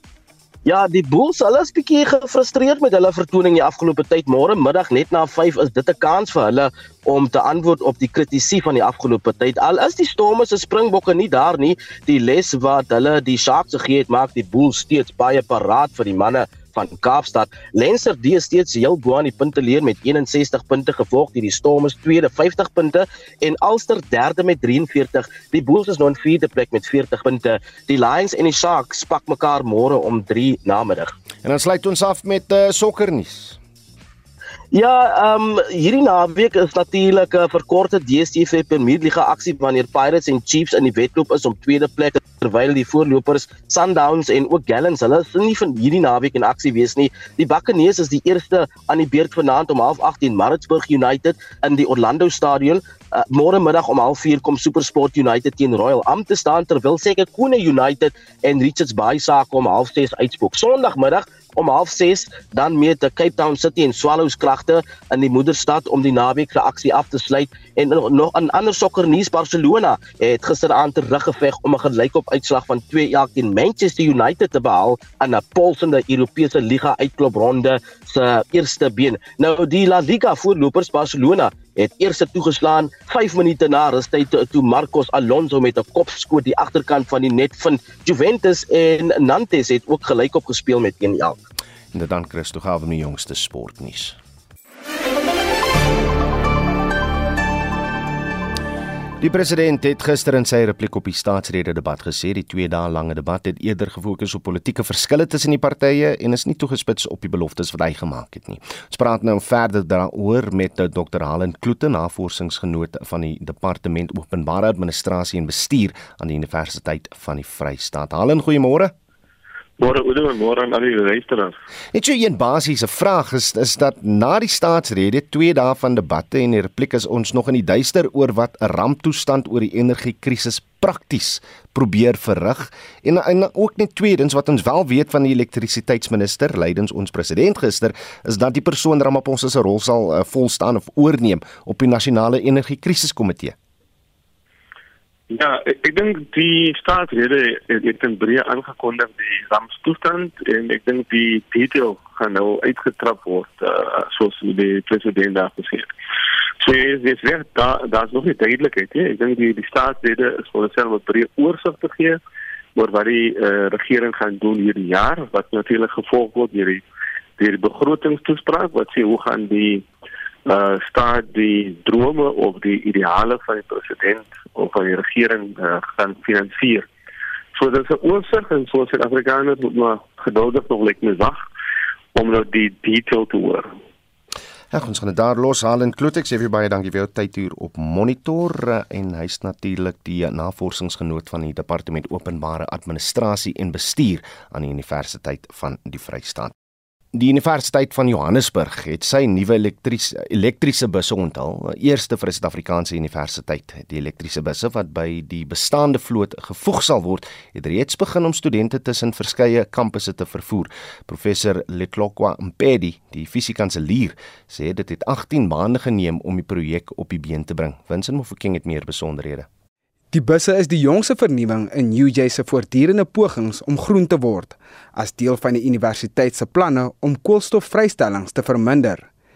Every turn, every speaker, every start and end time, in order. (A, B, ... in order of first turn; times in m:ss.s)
0:00.6-0:31.1 A
0:31.4-0:33.6 B
0:34.7-1:31.4 A
1:31.9-1:34.2 B
1:39.2-1:58.9 B
1:59.8-2:01.6 C
2:01.9-2:23.6 B
2:25.3-2:35.9 C
2:36.6-2:42.2 C
2:42.8-2:46.8 C
2:47.4-2:49.9 C
2:50.5-2:56.9 C
2:57.6-3:01.4 C
3:02.2-3:03.8 C
3:04.7-3:16.5 B
3:17.1-3:39.5 B
3:40.1-3:49.1 D